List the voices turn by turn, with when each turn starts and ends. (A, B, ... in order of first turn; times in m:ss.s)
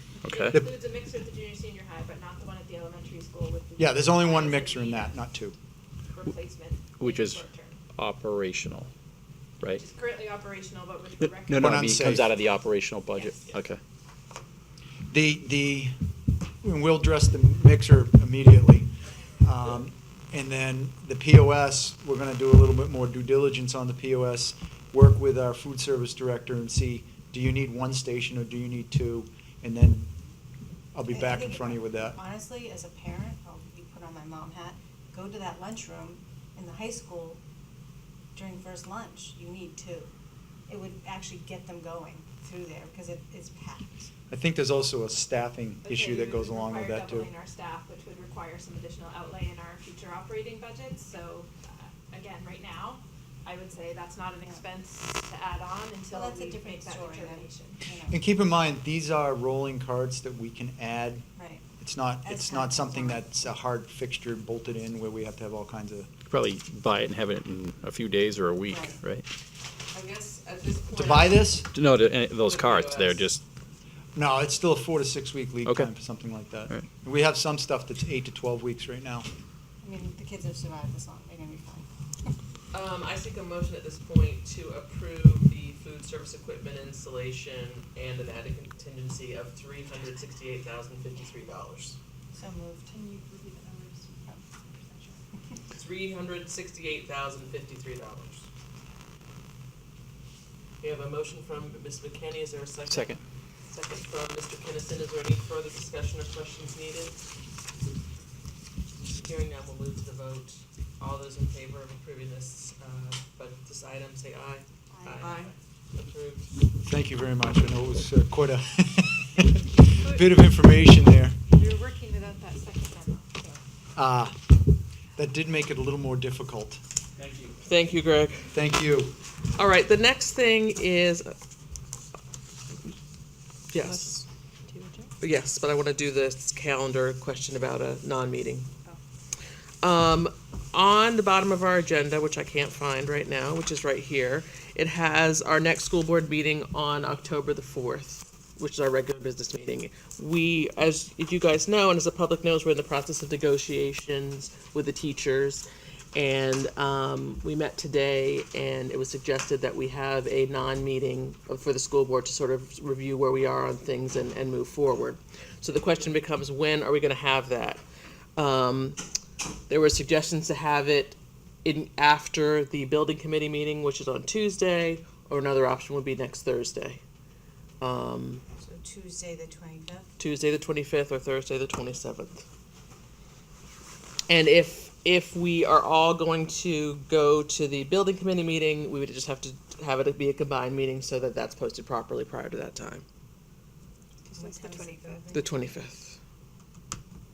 0:00.2-0:00.6 A
0:00.3-0:05.2 B
0:03.8-0:05.6 C
0:06.1-0:07.8 B
0:07.0-0:07.4 A
0:08.0-0:08.9 A
0:09.7-0:12.4 B
0:11.2-0:13.8 A
0:11.5-0:12.3 C
0:13.1-0:13.6 B
0:15.1-0:16.0 C
0:16.6-0:30.1 C
0:31.0-0:32.2 C
0:31.1-0:37.4 D
0:38.3-0:40.1 D
0:40.7-0:44.1 D
0:44.3-0:47.3 C
0:45.8-0:57.8 B
0:56.1-0:58.2 D
0:58.1-1:01.3 C
1:01.4-1:01.6 D
1:01.8-1:06.1 C
1:02.2-1:03.2 D
1:06.3-1:09.2 A
1:08.7-1:09.0 D
1:09.9-1:11.6 E
1:10.9-1:11.7 C
1:11.7-1:13.4 A
1:12.4-1:13.2 E
1:14.2-1:19.3 C
1:15.6-1:15.9 A
1:19.8-1:21.9 D
1:22.7-1:32.0 E
1:32.3-1:33.1 D
1:35.7-1:38.5 E
1:40.8-1:43.2 E
1:42.9-1:43.2 A
1:43.7-1:47.2 E
1:49.1-1:56.5 E
1:54.9-1:55.3 D
1:55.2-1:55.5 B
1:56.8-2:01.4 C
2:04.0-2:06.8 C
2:07.2-2:07.6 A
2:07.6-2:08.5 E
2:08.5-2:09.2 C
2:09.5-2:11.4 E
2:13.7-2:14.2 E
2:15.2-2:18.7 E
2:19.8-2:47.8 E
2:48.4-2:49.0 E
2:49.7-2:57.0 E
2:57.8-2:58.4 E
2:58.6-3:00.1 D
3:00.2-3:02.4 E
3:04.3-3:13.0 E
3:14.3-3:15.7 D
3:15.3-3:16.2 E